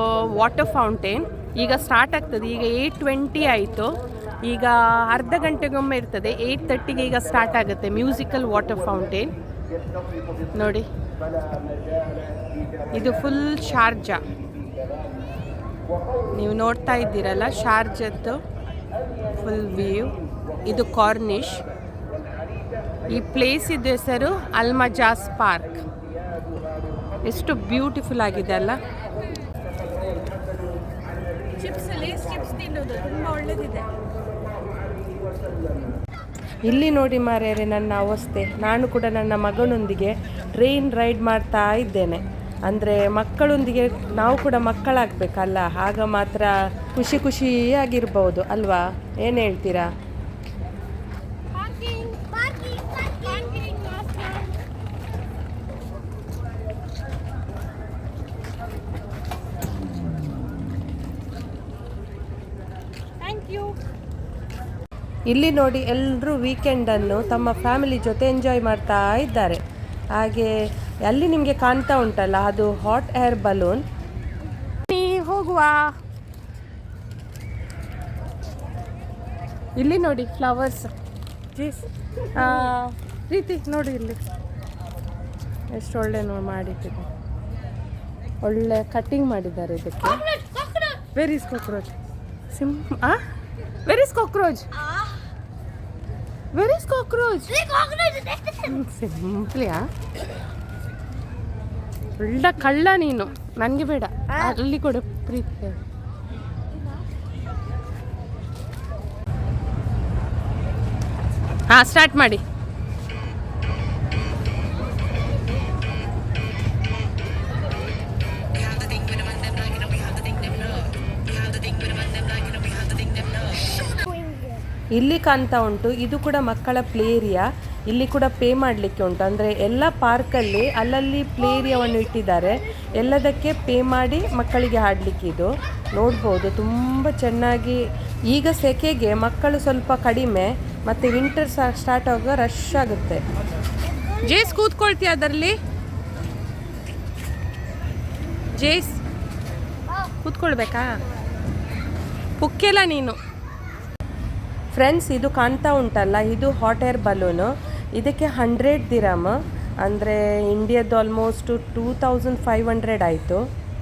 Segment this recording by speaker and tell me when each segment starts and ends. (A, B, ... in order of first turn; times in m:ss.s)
0:00.4-0:03.9 A
0:04.5-0:09.3 A
0:10.6-0:10.9 A
0:12.9-0:14.2 A
0:16.4-0:18.4 A
0:19.4-0:20.1 A
0:20.7-0:21.6 A
0:23.1-0:25.8 A
0:27.3-0:28.8 A
0:31.6-0:33.8 A
0:36.7-0:49.8 A
0:51.5-0:54.6 B
1:03.2-1:03.7 B
1:05.3-1:09.6 A
1:10.2-1:10.5 A
1:11.1-1:13.8 A
1:14.9-1:15.9 A
1:19.8-1:20.9 A
1:21.6-1:21.8 A
1:22.4-1:24.2 A
1:22.4-1:22.7 B
1:25.7-1:27.1 A
1:28.4-1:30.2 A
1:30.0-1:31.1 B
1:31.2-1:31.9 A
1:32.5-1:33.2 A
1:33.9-1:34.7 A
1:34.8-1:35.3 B
1:36.5-1:37.5 A
1:37.5-1:38.8 B
1:38.7-1:39.8 A
1:42.2-1:45.8 A
1:44.3-1:44.6 B
1:51.7-1:52.4 A
2:03.6-2:04.6 B
2:05.0-2:17.8 A
2:11.4-2:13.2 B
2:18.3-2:23.2 A
2:23.8-2:24.7 B
2:24.2-2:25.6 A
2:28.5-2:29.0 A
2:30.2-2:30.9 A
2:32.4-2:33.2 A
2:34.7-2:39.3 A
2:39.9-2:43.4 A